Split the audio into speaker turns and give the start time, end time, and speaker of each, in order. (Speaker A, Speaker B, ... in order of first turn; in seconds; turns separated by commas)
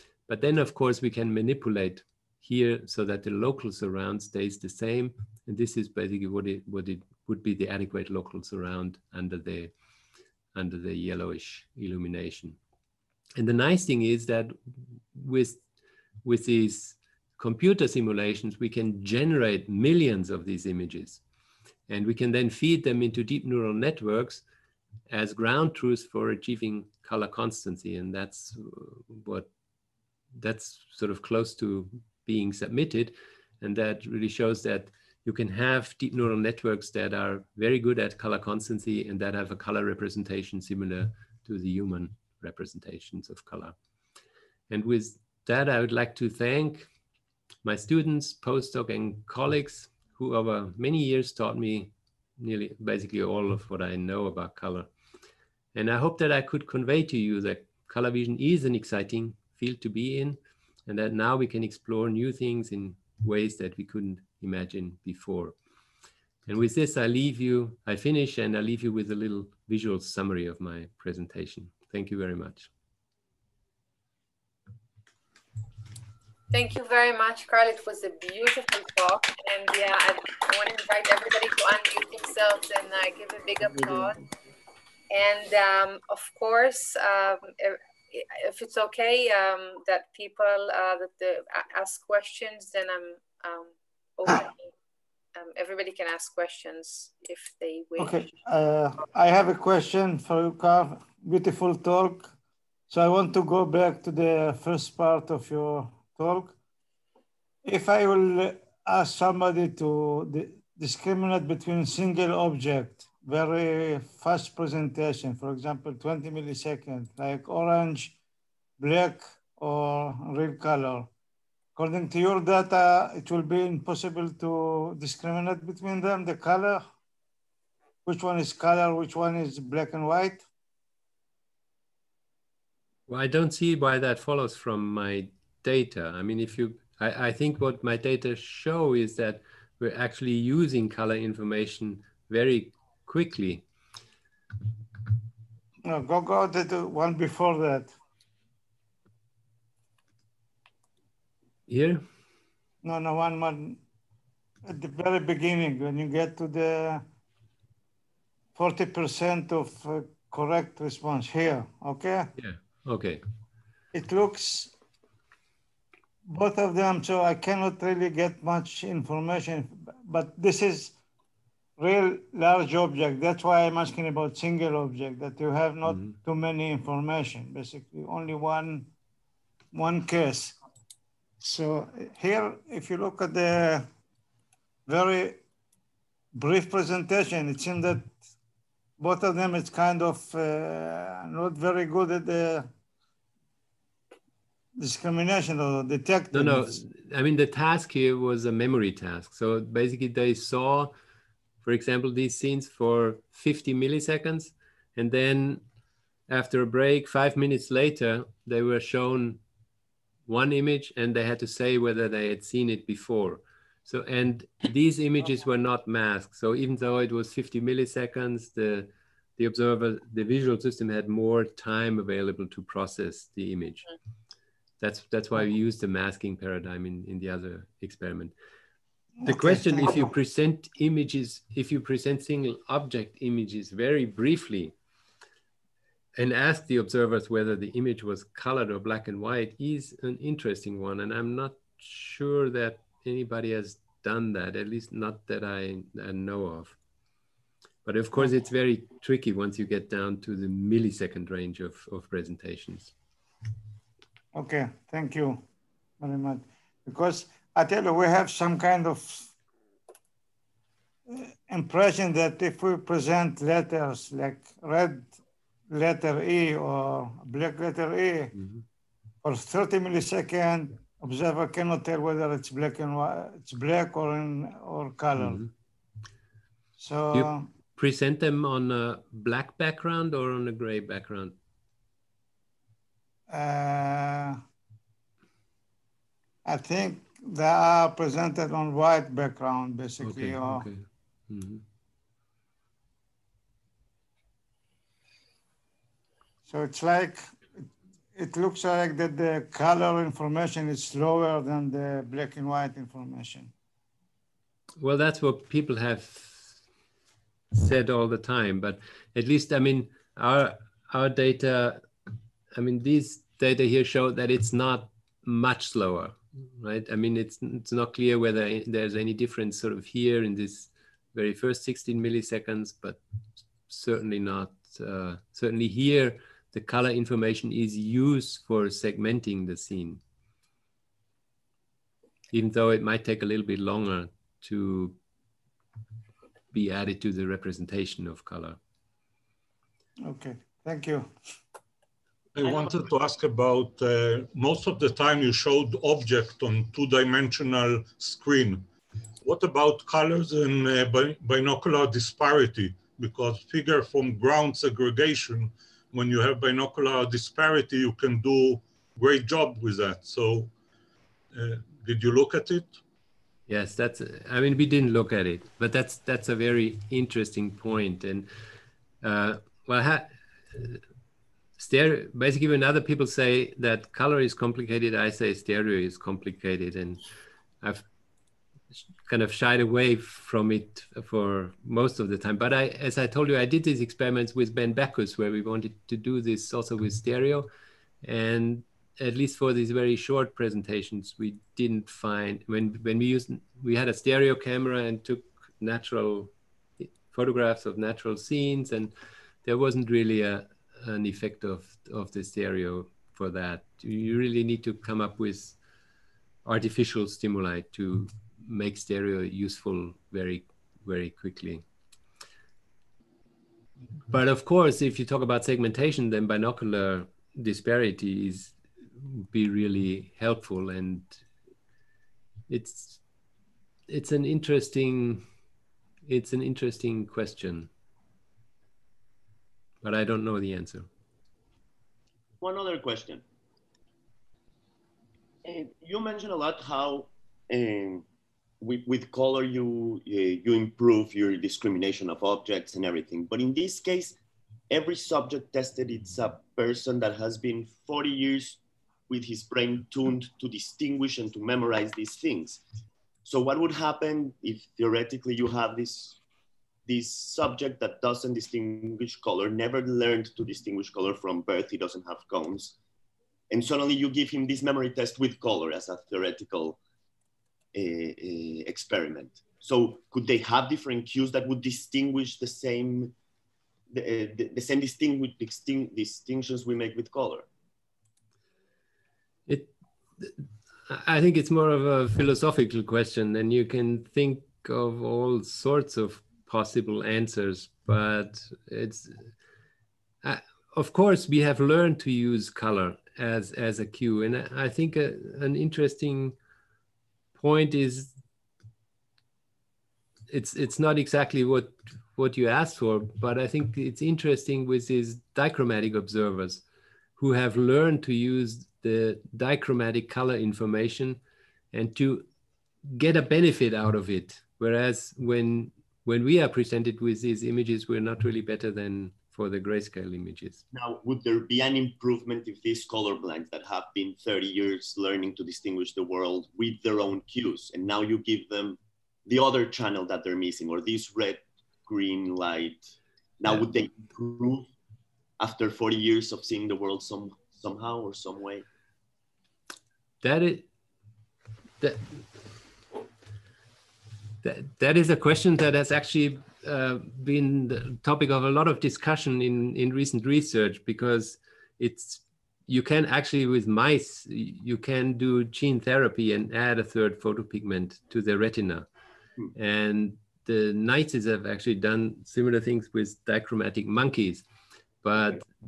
Speaker A: 0.3-9.7, Speaker A: 10.5-12.6, Speaker A: 13.4-15.6, Speaker A: 16.2-21.2, Speaker A: 21.9-24.4, Speaker A: 25.1-29.5, Speaker A: 30.3-43.8, Speaker A: 44.7-46.9, Speaker A: 47.6-54.9, Speaker A: 55.7-65.5, Speaker A: 66.5-72.7, Speaker B: 76.5-84.2, Speaker B: 85.1-94.7, Speaker B: 95.3-98.3, Speaker C: 98.0-102.3, Speaker C: 102.9-106.5, Speaker C: 107.7-118.2, Speaker C: 118.8-121.1, Speaker C: 121.8-126.8, Speaker C: 128.1-130.4, Speaker A: 133.1-143.7, Speaker C: 145.8-148.0, Speaker A: 151.7-152.0, Speaker C: 152.8-153.8, Speaker C: 154.6-157.0, Speaker C: 158.6-162.3, Speaker A: 162.4-163.2, Speaker C: 163.9-164.7, Speaker C: 166.3-170.9, Speaker C: 171.8-178.9, Speaker C: 179.7-180.6, Speaker C: 181.4-183.9, Speaker C: 184.9-185.4, Speaker C: 186.3-188.2, Speaker C: 189.0-192.7, Speaker C: 194.8-196.8, Speaker A: 196.3-200.9, Speaker A: 201.6-205.6, Speaker A: 206.3-209.4, Speaker A: 210.3-223.9, Speaker A: 224.8-228.3, Speaker C: 229.2-230.0, Speaker A: 229.2-234.7, Speaker A: 236.2-246.8, Speaker A: 247.8-252.9, Speaker C: 254.3-255.4, Speaker C: 256.0-259.3, Speaker C: 261.1-265.2, Speaker C: 265.7-268.4, Speaker C: 269.2-275.4, Speaker A: 275.2-275.5, Speaker C: 276.8-277.5, Speaker A: 277.1-281.4, Speaker C: 283.3-284.4, Speaker C: 286.4-290.6, Speaker A: 290.0-291.6, Speaker C: 296.5-297.4, Speaker C: 298.1-303.5, Speaker A: 304.8-306.6, Speaker A: 307.5-311.8, Speaker A: 312.5-323.0, Speaker A: 323.7-330.0, Speaker A: 332.3-335.0, Speaker A: 336.5-338.6, Speaker C: 340.0-341.1, Speaker D: 342.4-348.7, Speaker D: 349.2-360.5, Speaker D: 361.3-362.8, Speaker A: 363.5-368.3, Speaker A: 369.0-370.8, Speaker A: 371.6-377.0, Speaker A: 379.1-387.5, Speaker A: 388.0-398.9, Speaker A: 399.4-405.6, Speaker A: 406.4-411.6, Speaker A: 414.1-421.2, Speaker A: 422.5-423.0, Speaker A: 423.9-425.3, Speaker A: 426.1-427.7, Speaker A: 429.8-430.9, Speaker E: 432.4-433.2, Speaker E: 435.4-438.1, Speaker E: 438.6-444.2, Speaker E: 444.7-452.6, Speaker E: 453.2-456.2, Speaker E: 456.9-462.8, Speaker E: 463.5-466.8, Speaker E: 467.8-473.1, Speaker E: 473.9-477.5, Speaker A: 479.5-489.3, Speaker A: 490.2-496.4, Speaker A: 497.4-498.2, Speaker A: 500.3-506.6, Speaker A: 507.2-511.2, Speaker A: 511.7-512.3, Speaker A: 512.9-520.6, Speaker E: 520.7-532.9, Speaker E: 533.4-534.7, Speaker E: 535.4-538.6, Speaker A: 540.2-540.7, Speaker A: 541.8-542.2, Speaker A: 544.4-558.9, Speaker A: 559.5-564.5, Speaker A: 565.0-565.5